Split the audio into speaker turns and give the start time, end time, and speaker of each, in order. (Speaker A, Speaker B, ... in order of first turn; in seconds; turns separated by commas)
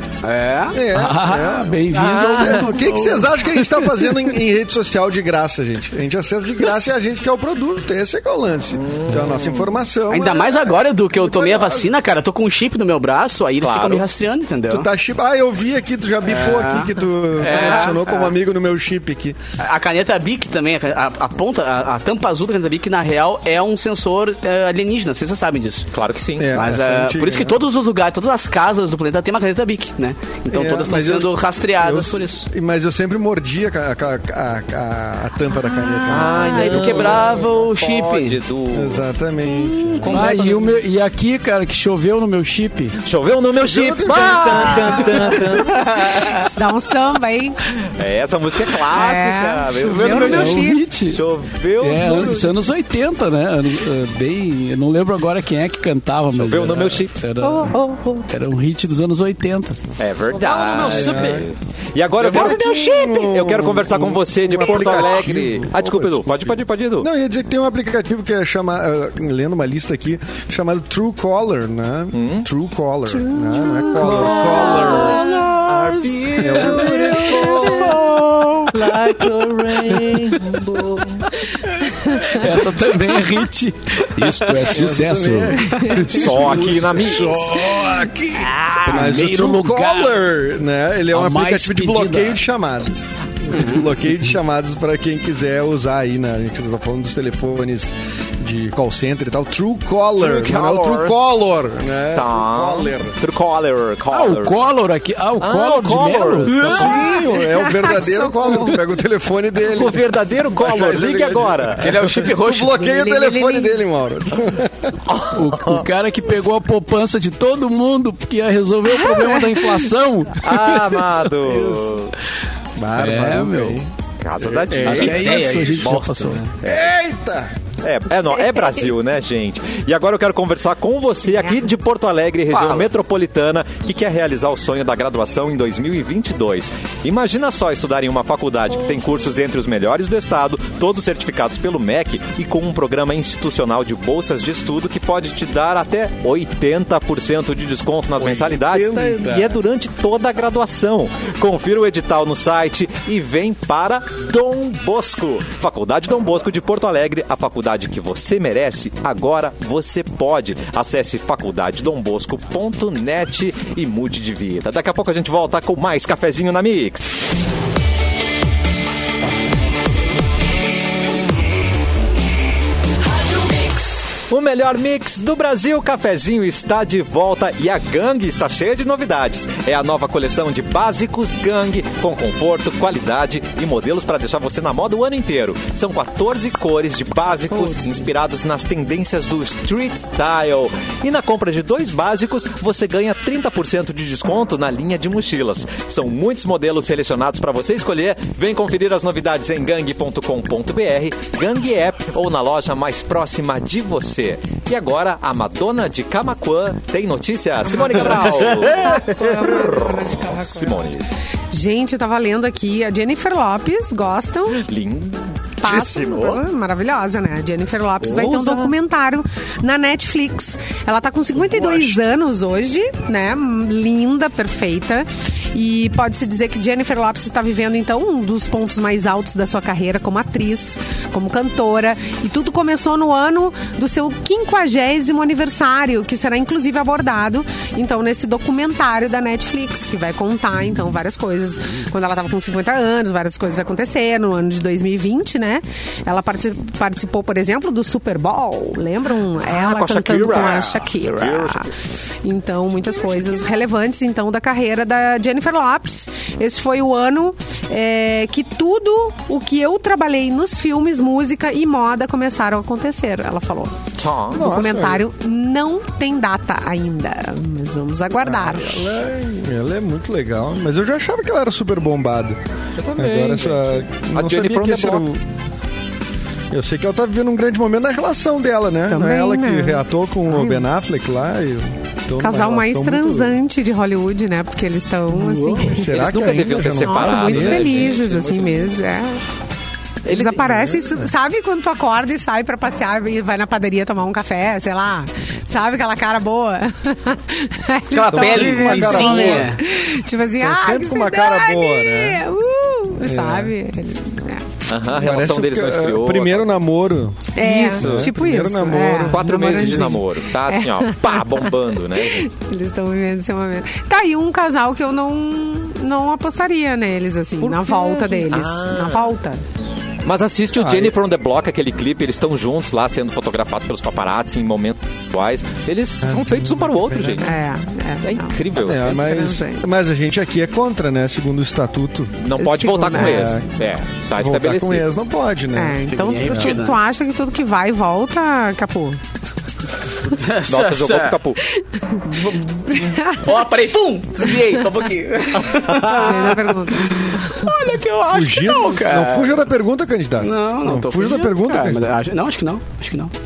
Speaker A: 0.2-0.8, Speaker B: 0.7-1.8, Speaker C: 0.9-3.2, Speaker D: 1.9-2.8, Speaker B: 2.3-11.9, Speaker D: 8.8-9.7, Speaker A: 10.1-14.9, Speaker D: 13.6-14.1, Speaker B: 14.7-19.4, Speaker A: 16.3-18.3, Speaker D: 17.4-18.0, Speaker A: 19.6-25.9, Speaker D: 25.9-26.5, Speaker B: 26.4-27.6, Speaker A: 26.5-32.5, Speaker B: 30.5-37.3, Speaker D: 36.1-39.0, Speaker A: 36.1-38.4, Speaker B: 38.7-40.2, Speaker A: 40.0-40.7, Speaker D: 40.0-40.5, Speaker C: 40.1-43.0, Speaker D: 43.0-46.3, Speaker B: 43.6-45.4, Speaker A: 44.1-46.5, Speaker E: 46.3-47.6, Speaker D: 47.9-52.5, Speaker E: 48.9-50.9, Speaker C: 49.8-51.2, Speaker A: 49.9-50.4, Speaker C: 51.8-57.8, Speaker D: 56.3-58.3, Speaker C: 58.3-59.8, Speaker D: 60.0-67.1, Speaker B: 60.3-61.5, Speaker A: 60.4-61.5, Speaker A: 62.2-62.6, Speaker B: 62.2-75.2, Speaker D: 72.1-72.5, Speaker E: 73.1-74.7, Speaker D: 73.9-81.3, Speaker A: 74.1-79.2, Speaker C: 75.2-78.6, Speaker B: 76.4-77.0, Speaker C: 79.9-80.3, Speaker E: 81.9-82.3, Speaker C: 82.1-88.1, Speaker B: 84.7-103.2, Speaker D: 85.9-87.5, Speaker A: 88.3-89.1, Speaker C: 88.7-90.2, Speaker C: 91.1-92.4, Speaker A: 93.5-93.8, Speaker D: 100.2-101.2, Speaker D: 102.1-104.6, Speaker C: 104.1-107.0, Speaker D: 105.4-107.1, Speaker B: 106.5-114.9, Speaker E: 106.8-108.8, Speaker D: 109.7-111.9, Speaker A: 111.8-112.8, Speaker E: 112.5-113.8, Speaker D: 115.1-115.9, Speaker C: 115.3-121.0, Speaker E: 118.9-119.9, Speaker D: 120.3-122.1, Speaker B: 121.4-122.0, Speaker B: 122.8-123.8, Speaker C: 123.0-123.8, Speaker D: 124.2-125.5, Speaker B: 124.4-126.0, Speaker C: 124.8-126.5, Speaker A: 124.8-126.5, Speaker B: 126.6-127.5, Speaker D: 127.8-167.1, Speaker E: 128.3-128.8, Speaker A: 132.5-132.9, Speaker B: 148.2-149.6, Speaker D: 174.3-211.1, Speaker E: 187.5-188.0, Speaker E: 207.7-210.8, Speaker A: 207.9-209.5, Speaker E: 211.5-214.6, Speaker D: 214.6-216.4, Speaker E: 215.6-251.7, Speaker D: 218.0-218.7, Speaker D: 221.3-221.9, Speaker D: 249.5-251.7, Speaker E: 252.2-263.8, Speaker D: 264.0-264.4, Speaker B: 264.3-265.0, Speaker E: 264.3-268.9, Speaker B: 268.1-272.4, Speaker D: 272.8-275.1, Speaker B: 273.0-275.2, Speaker B: 276.5-283.4, Speaker E: 278.9-280.7, Speaker E: 282.2-286.1, Speaker B: 285.5-287.8, Speaker D: 285.9-288.7, Speaker E: 286.8-289.2, Speaker E: 290.0-304.6, Speaker D: 290.1-290.4, Speaker B: 290.4-291.1, Speaker A: 297.9-299.6, Speaker B: 298.1-299.5, Speaker B: 300.4-302.2, Speaker B: 303.0-303.5, Speaker D: 304.7-306.5, Speaker B: 304.9-310.0, Speaker E: 307.4-319.4, Speaker D: 307.4-308.1, Speaker D: 309.0-312.3, Speaker D: 317.4-319.1, Speaker D: 320.0-327.3, Speaker B: 320.6-320.9, Speaker B: 326.0-327.3, Speaker E: 327.2-329.7, Speaker D: 328.0-329.1, Speaker B: 328.5-332.1, Speaker D: 332.2-334.9, Speaker E: 332.4-333.4, Speaker B: 332.9-333.5, Speaker B: 334.1-336.6, Speaker E: 335.5-339.0, Speaker A: 335.9-336.8, Speaker A: 340.1-341.2, Speaker D: 340.4-341.4, Speaker E: 341.6-343.4, Speaker A: 342.1-349.4, Speaker D: 345.4-346.3, Speaker E: 345.9-347.5, Speaker B: 348.1-351.9, Speaker A: 350.2-353.1